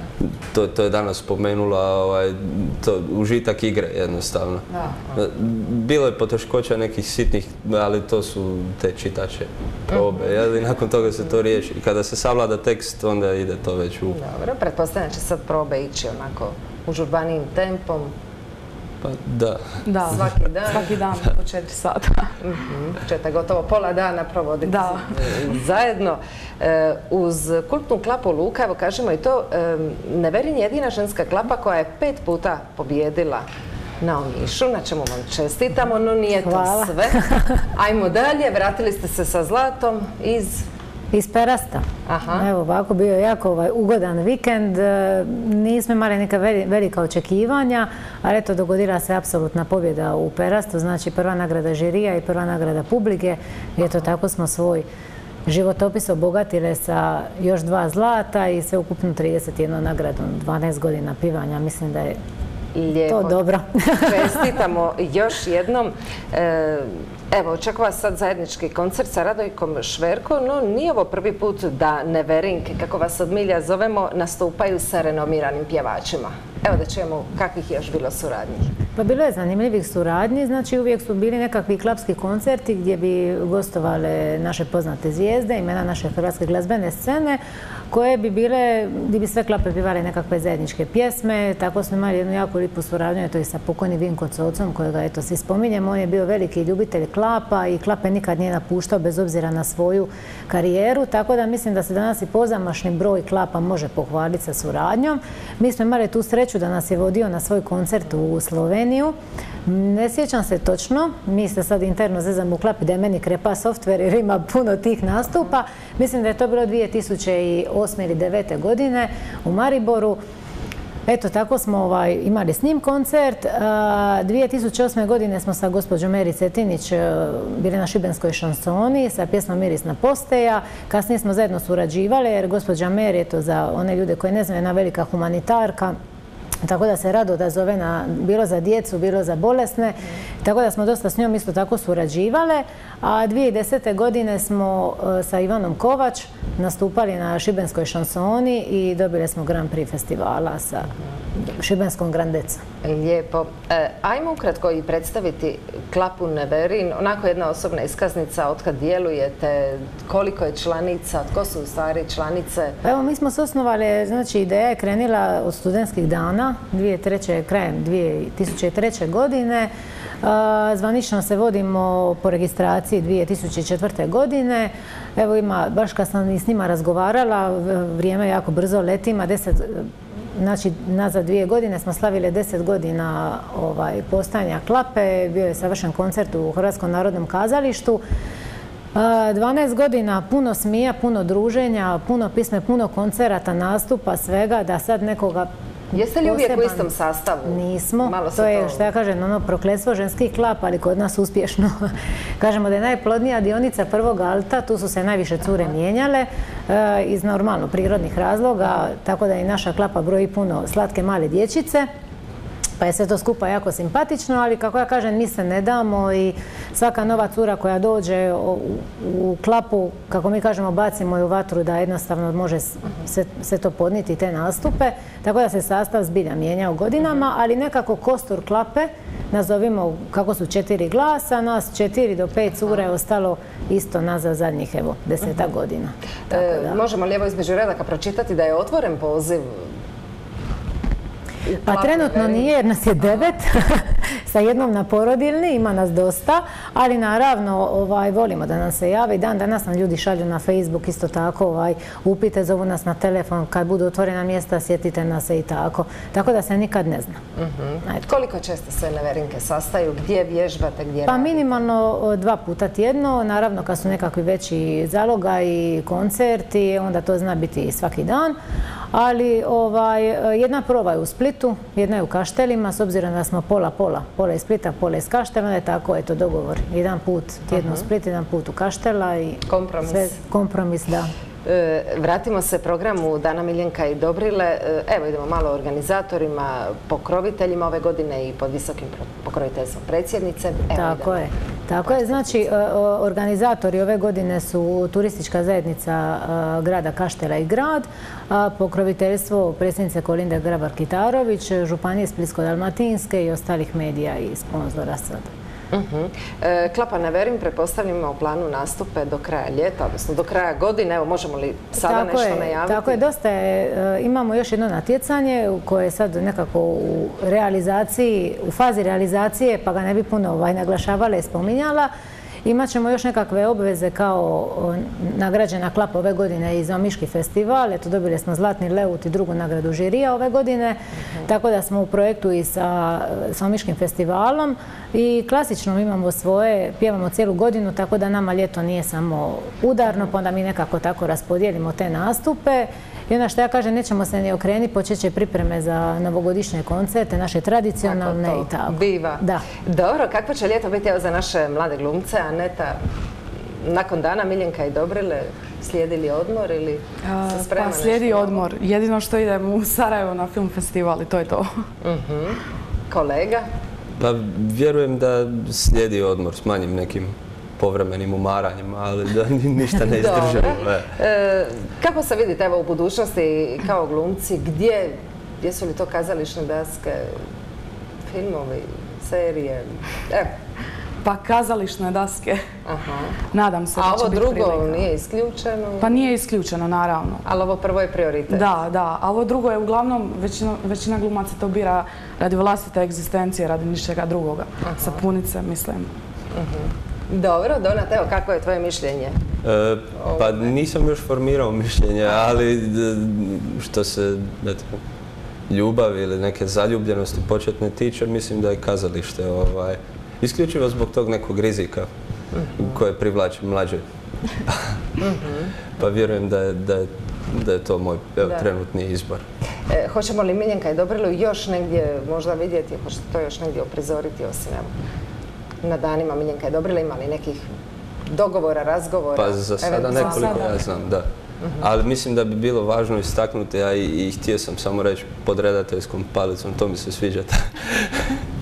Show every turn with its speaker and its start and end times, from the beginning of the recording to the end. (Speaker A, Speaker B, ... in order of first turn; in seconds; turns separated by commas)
Speaker A: 0.2-14.2, Speaker B: 4.7-5.2, Speaker B: 14.1-18.1, Speaker A: 19.0-21.3, Speaker C: 19.9-22.3, Speaker B: 20.1-20.9, Speaker B: 22.4-33.5, Speaker C: 24.6-25.2, Speaker B: 34.0-40.6, Speaker D: 36.4-37.5, Speaker D: 41.1-54.9, Speaker B: 42.1-42.5, Speaker D: 55.5-62.2, Speaker B: 62.8-63.4, Speaker D: 63.1-64.5, Speaker B: 64.0-78.7, Speaker D: 79.0-109.2, Speaker D: 109.7-120.2, Speaker D: 121.1-136.0, Speaker D: 136.6-152.6, Speaker B: 152.8-162.8, Speaker D: 162.8-169.7, Speaker D: 170.2-188.0, Speaker D: 188.9-196.9, Speaker B: 195.9-198.9, Speaker D: 197.5-201.9, Speaker D: 202.4-211.9, Speaker D: 212.8-236.8, Speaker B: 236.3-239.7, Speaker B: 241.5-242.5, Speaker D: 241.7-257.2, Speaker B: 257.4-261.6, Speaker D: 261.1-268.4, Speaker D: 268.9-281.1, Speaker B: 277.5-277.9, Speaker B: 279.5-280.2, Speaker B: 281.5-291.2, Speaker D: 290.7-305.3, Speaker B: 291.8-292.5, Speaker B: 305.7-313.0, Speaker D: 311.8-321.9, Speaker D: 322.4-349.4, Speaker B: 347.8-352.8, Speaker B: 353.6-358.5, Speaker C: 357.1-361.5, Speaker B: 361.8-363.5, Speaker A: 364.0-370.9, Speaker B: 369.9-377.2, Speaker B: 378.1-380.3, Speaker C: 381.0-382.4, Speaker B: 382.6-383.2, Speaker C: 383.3-384.9, Speaker B: 383.8-386.1, Speaker C: 385.8-387.2, Speaker B: 387.2-388.6, Speaker C: 388.3-395.9, Speaker B: 394.6-395.0, Speaker B: 396.3-399.2, Speaker A: 399.4-404.8, Speaker B: 400.0-400.5, Speaker A: 405.5-411.9, Speaker B: 412.3-412.8, Speaker A: 412.6-413.8, Speaker B: 415.0-415.5, Speaker A: 415.8-419.2, Speaker B: 419.7-424.7, Speaker B: 425.6-427.5, Speaker B: 428.1-430.6, Speaker A: 429.1-431.1, Speaker C: 429.9-430.6, Speaker A: 431.6-438.0